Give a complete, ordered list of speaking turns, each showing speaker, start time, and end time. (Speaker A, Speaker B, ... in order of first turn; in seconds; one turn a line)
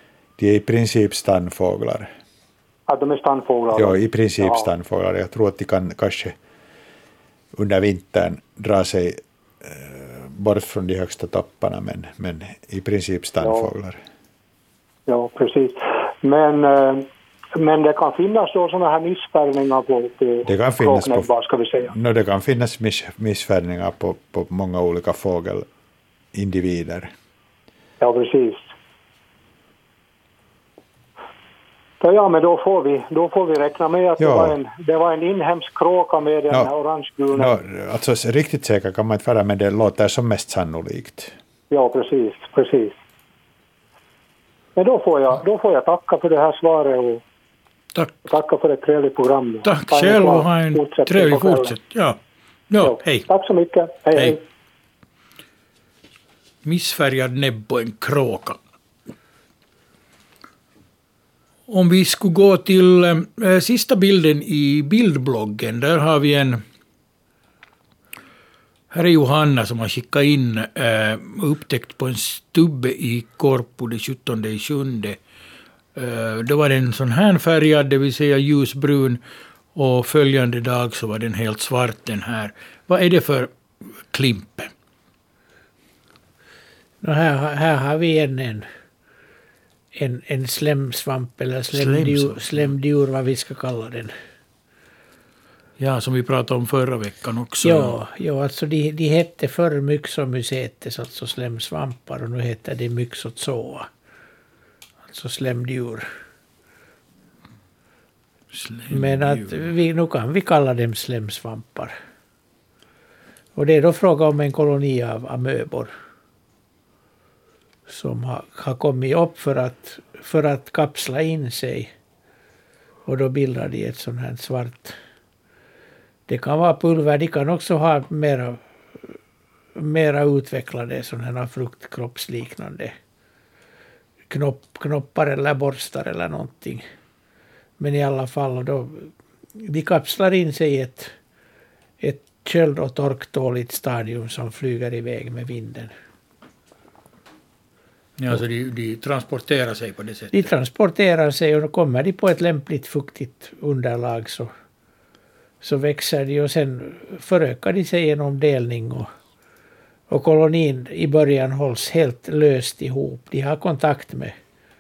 Speaker A: 0.4-2.1
Speaker B: 2.9-4.7
Speaker A: 3.7-6.3
Speaker A: 7.5-14.0
Speaker B: 13.4-13.7
Speaker B: 15.1-17.1
Speaker B: 17.6-21.9
Speaker A: 20.4-21.3
Speaker A: 21.9-25.7
Speaker A: 26.3-27.1
Speaker B: 28.0-28.7
Speaker B: 32.0-37.5
Speaker A: 34.2-34.6
Speaker A: 37.3-41.4
Speaker B: 41.7-43.0
Speaker B: 44.8-47.2
Speaker B: 48.3-51.8
Speaker C: 49.7-52.2
Speaker C: 52.7-53.3
Speaker B: 52.8-54.4
Speaker C: 56.6-58.6
Speaker C: 61.7-66.6
Speaker C: 68.9-75.2
Speaker C: 76.0-79.2
Speaker C: 79.8-84.7
Speaker D: 87.0-88.7
Speaker D: 90.0-94.1
Speaker C: 91.7-92.7
Speaker C: 95.8-98.0
Speaker D: 97.6-103.9
Speaker D: 105.1-106.0
Speaker C: 108.5-109.7
Speaker D: 108.9-111.9
Speaker D: 113.6-115.9
Speaker D: 117.9-121.9
Speaker D: 123.1-125.0
Speaker D: 126.3-128.6
Speaker D: 129.8-132.9
Speaker D: 134.3-136.8
Speaker D: 137.8-141.1
Speaker D: 142.0-145.9
Speaker C: 148.2-150.5
Speaker D: 150.3-154.5
Speaker D: 155.6-159.1
Speaker D: 160.1-164.4